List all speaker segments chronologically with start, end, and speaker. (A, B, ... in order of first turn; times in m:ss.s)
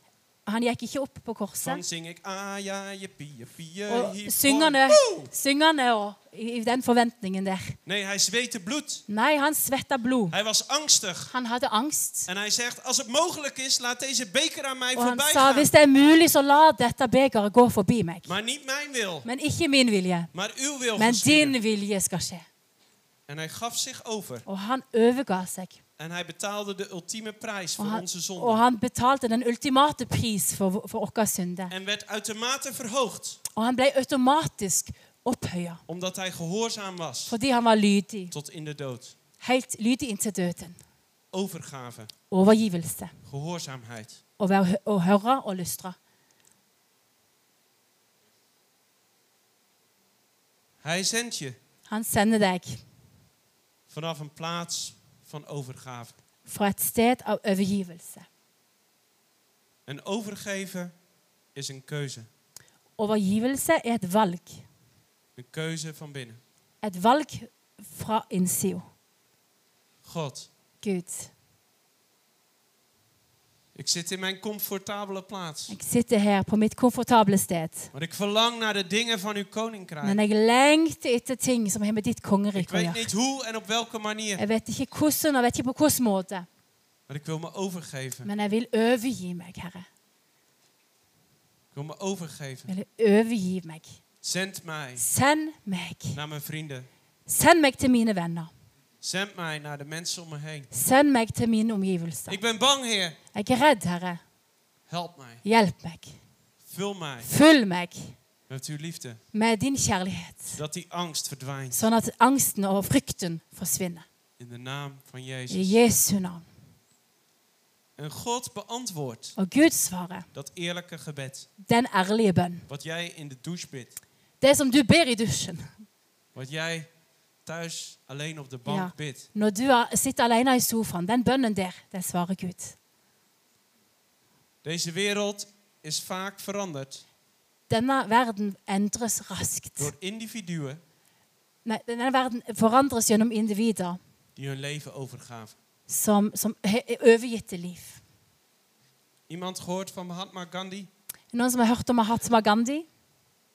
0:00.5-0:01.8 A
0:01.6-0:05.3 B
0:03.9-0:07.8 A
0:07.8-0:09.0 B
0:09.1-0:10.4 A
0:10.3-0:11.3 B
0:11.3-0:12.3 A
0:12.3-0:15.7 B
0:15.0-0:18.3 A
0:18.3-0:19.3 B
0:19.2-0:20.3 A
0:20.3-0:21.6 B
0:21.0-0:22.4 A
0:23.3-0:24.4 B
0:24.5-0:25.8 A
0:26.0-0:28.6 B
0:27.8-0:31.7 A
0:31.7-0:33.4 B
0:33.6-0:35.8 A
0:35.9-0:37.4 B
0:37.3-0:38.3 A
0:38.3-0:39.2 B
0:39.4-0:40.8 A
0:41.3-0:42.1 B
0:42.3-0:43.2 A
0:43.2-0:44.2 B
0:44.4-0:46.0 A
0:50.8-0:51.6 B
0:51.9-0:52.8 A
0:53.9-0:56.2 B
0:56.5-0:58.3 A
0:59.9-1:00.9 B
1:01.6-1:02.3 B
1:03.0-1:04.6 A
1:05.4-1:06.4 B
1:06.8-1:08.8 A
1:10.0-1:10.5 B
1:10.8-1:11.3 A
1:13.8-1:15.8 B
1:15.7-1:17.9 A
1:17.9-1:20.2 B
1:20.0-1:23.1 A
1:22.6-1:24.4 B
1:24.4-1:26.5 A
1:27.1-1:28.3 B
1:28.2-1:29.9 A
1:31.7-1:32.7 B
1:32.7-1:34.0 A
1:34.2-1:35.0 B
1:35.0-1:36.2 A
1:36.1-1:36.9 B
1:37.3-1:38.5 A
1:39.0-1:40.7 B
1:40.7-1:42.4 A
1:42.3-1:43.2 B
1:43.3-1:44.2 A
1:44.9-1:45.4 B
1:45.4-1:46.2 A
1:46.6-1:47.3 B
1:47.2-1:48.2 A
1:48.5-1:49.2 B
1:49.3-1:50.6 A
1:50.5-1:51.9 B
1:51.7-1:54.0 A
1:54.4-1:55.8 B
1:55.5-1:56.5 A
1:58.0-1:59.4 B
1:59.4-2:00.3 A
2:00.3-2:01.5 B
2:01.6-2:02.7 A
2:02.7-2:04.0 B
2:04.4-2:05.7 A
2:06.3-2:06.9 B
2:07.4-2:09.3 B
2:08.7-2:12.8 A
2:14.6-2:17.0 B
2:17.7-2:19.9 A
2:19.8-2:20.8 B
2:21.6-2:24.0 A
2:24.4-2:25.6 B
2:25.9-2:28.0 A
2:29.3-2:30.9 B
2:31.3-2:32.9 A